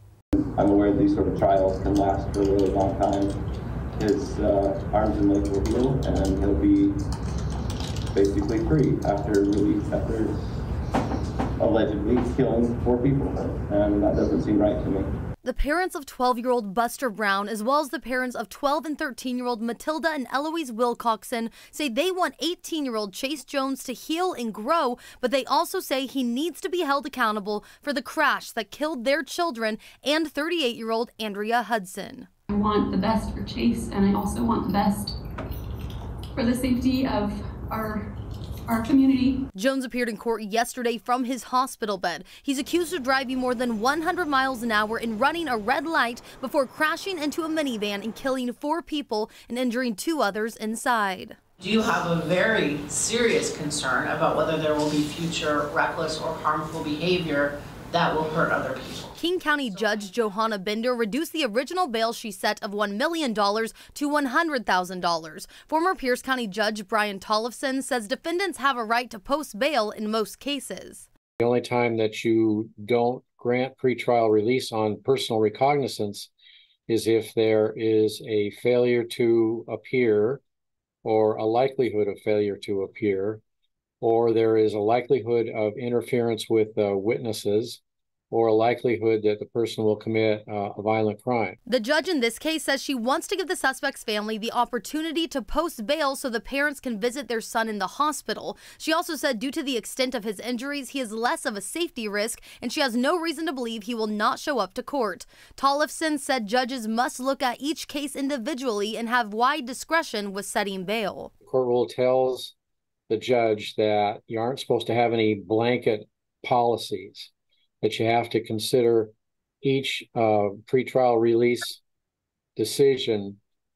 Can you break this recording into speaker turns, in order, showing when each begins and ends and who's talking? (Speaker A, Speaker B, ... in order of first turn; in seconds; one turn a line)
Speaker A: 0.4-3.4
Speaker A: 4.0-7.0
Speaker A: 8.1-10.5
Speaker A: 11.6-15.1
Speaker B: 15.4-32.3
Speaker C: 32.5-35.1
Speaker C: 36.3-38.1
Speaker C: 38.7-39.4
Speaker B: 39.5-51.4
Speaker D: 51.6-59.1
Speaker B: 59.2-71.1
Speaker E: 71.4-76.3
Speaker E: 76.9-80.4
Speaker E: 81.0-83.4
Speaker E: 84.0-91.6
Speaker B: 91.7-111.3
Speaker E: 111.4-112.5
Speaker E: 113.1-121.8
Speaker E: 122.6-123.4